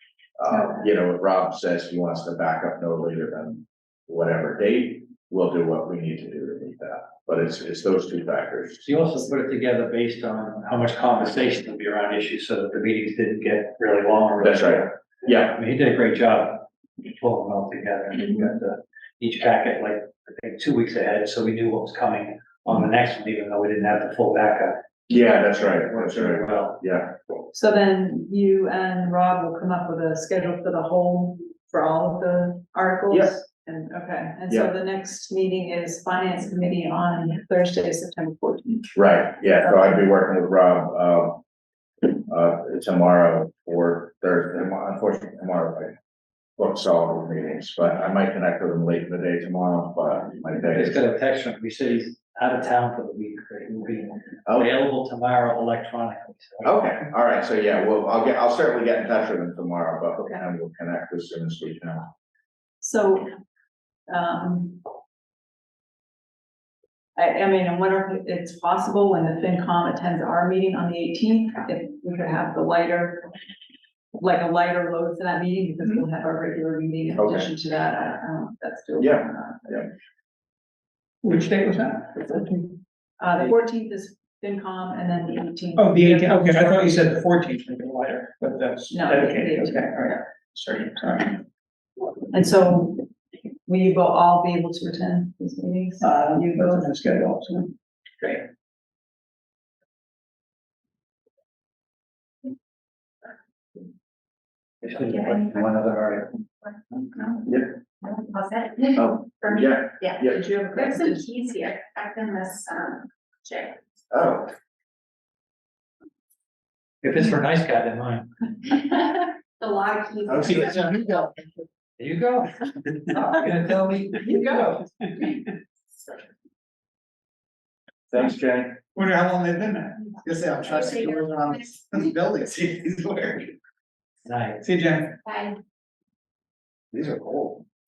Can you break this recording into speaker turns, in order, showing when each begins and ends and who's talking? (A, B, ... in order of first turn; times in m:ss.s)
0:00.4-0:08.9 A
0:00.5-0:00.9 B
0:08.8-0:24.8 C
0:14.4-0:15.6 A
0:25.1-0:27.1 A
0:25.8-0:26.8 C
0:27.5-0:38.9 B
0:38.9-0:41.4 A
0:42.1-0:45.9 A
0:46.6-0:51.0 A
0:50.6-0:56.8 C
0:54.4-0:54.7 A
0:56.6-1:02.1 A
1:02.8-1:03.3 B
1:04.1-1:04.8 B
1:07.2-1:13.3 B
1:14.2-1:19.9 B
1:17.2-1:17.5 A
1:19.0-1:19.9 A
1:21.2-1:22.8 D
1:23.2-1:26.9 B
1:25.8-1:31.4 D
1:28.9-1:30.2 B
1:32.3-1:33.1 B
1:33.6-1:36.9 B
1:36.0-1:37.7 D
1:44.8-1:46.4 C
1:47.4-1:47.7 A
1:48.0-1:50.2 E
1:48.9-1:50.4 A
1:50.3-1:51.3 B
1:50.8-1:53.8 E
1:54.1-1:54.5 A
1:57.0-1:58.3 C
1:58.9-2:01.0 E
2:00.3-2:01.3 F
2:02.0-2:04.6 C
2:08.1-2:08.8 A
2:09.0-2:09.9 D
2:10.3-2:13.5 F
2:14.2-2:14.6 C
2:15.3-2:15.5 E
2:17.0-2:17.5 F